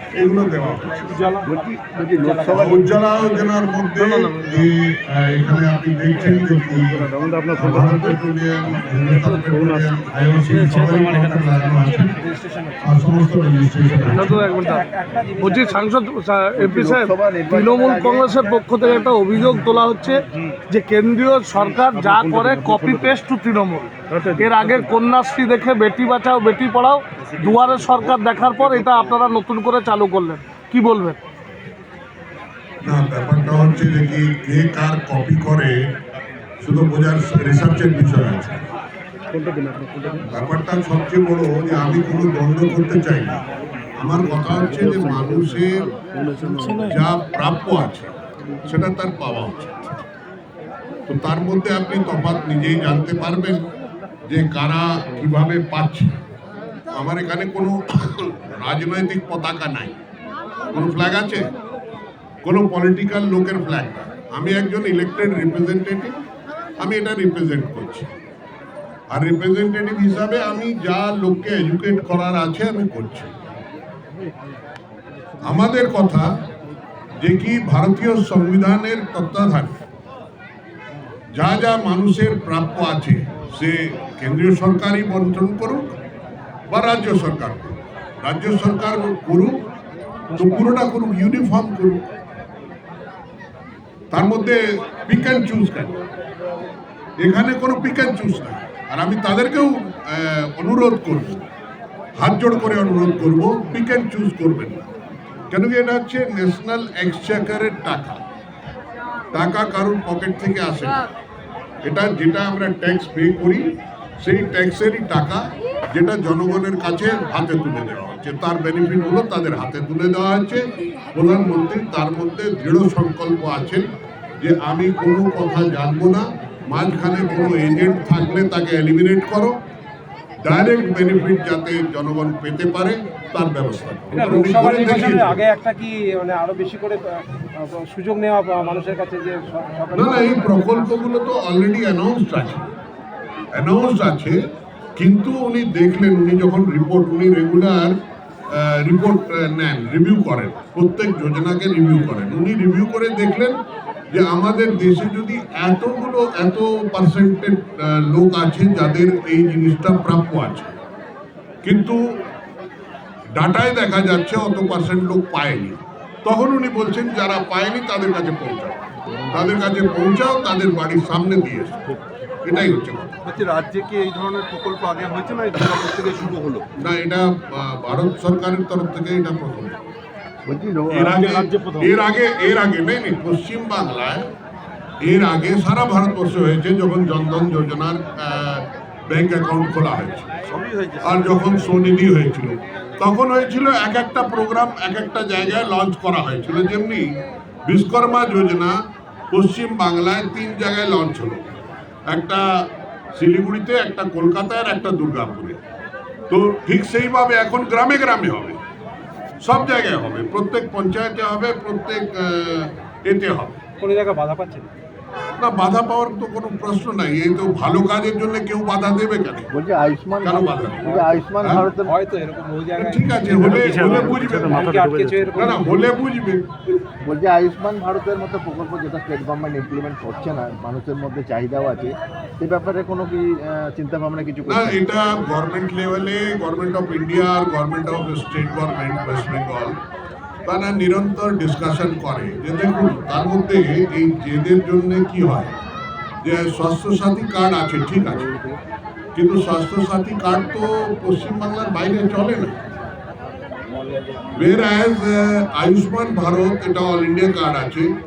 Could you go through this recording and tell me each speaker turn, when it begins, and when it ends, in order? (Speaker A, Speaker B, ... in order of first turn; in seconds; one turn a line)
Speaker A: 0.1-1.2
Speaker B: 1.0-2.9
Speaker C: 1.5-2.8
Speaker A: 2.5-12.2
Speaker D: 4.0-4.6
Speaker D: 6.3-8.1
Speaker D: 9.5-9.8
Speaker D: 10.5-11.5
Speaker B: 12.2-12.8
Speaker A: 12.8-14.5
Speaker E: 14.1-14.9
Speaker B: 14.5-15.8
Speaker E: 15.4-31.2
Speaker C: 16.6-18.3
Speaker D: 20.3-20.6
Speaker D: 21.6-23.2
Speaker D: 24.0-24.9
Speaker D: 27.2-29.2
Speaker A: 32.8-35.8
Speaker A: 36.6-38.7
Speaker D: 39.3-40.2
Speaker A: 40.2-43.4
Speaker A: 44.0-45.9
Speaker D: 44.5-45.5
Speaker D: 46.0-47.0
Speaker A: 46.7-49.9
Speaker A: 51.1-53.6
Speaker A: 54.3-56.1
Speaker A: 56.9-60.0
Speaker A: 60.7-61.5
Speaker A: 62.4-66.2
Speaker A: 66.8-68.1
Speaker A: 69.1-73.4
Speaker A: 75.4-76.3
Speaker A: 77.2-79.8
Speaker A: 81.3-85.9
Speaker A: 86.7-89.6
Speaker A: 90.3-92.1
Speaker A: 94.1-96.0
Speaker A: 97.2-101.5
Speaker A: 102.2-104.9
Speaker A: 105.5-108.2
Speaker A: 109.3-111.0
Speaker A: 111.8-123.9
Speaker A: 124.4-129.6
Speaker A: 130.4-135.4
Speaker B: 134.1-140.9
Speaker A: 139.9-142.7
Speaker A: 143.5-144.4
Speaker A: 144.9-147.9
Speaker A: 148.5-153.6
Speaker A: 154.1-160.8
Speaker A: 161.6-162.1
Speaker A: 163.3-173.3
Speaker D: 173.4-176.6
Speaker B: 174.6-176.4
Speaker A: 176.8-179.8
Speaker C: 180.4-181.2
Speaker A: 180.9-184.3
Speaker A: 185.0-190.3
Speaker D: 190.6-190.9
Speaker A: 191.0-198.7
Speaker A: 199.3-205.6
Speaker A: 206.3-208.6
Speaker A: 209.4-213.6
Speaker B: 213.8-214.7
Speaker A: 215.4-219.5
Speaker C: 219.5-221.9
Speaker A: 220.2-221.7
Speaker B: 220.8-221.2
Speaker B: 221.8-225.9
Speaker A: 222.8-224.7
Speaker D: 223.5-225.4
Speaker A: 225.3-226.4
Speaker C: 227.0-234.8
Speaker A: 234.5-239.8
Speaker A: 240.4-245.6
Speaker A: 246.2-248.4
Speaker A: 249.1-252.6
Speaker A: 254.3-257.9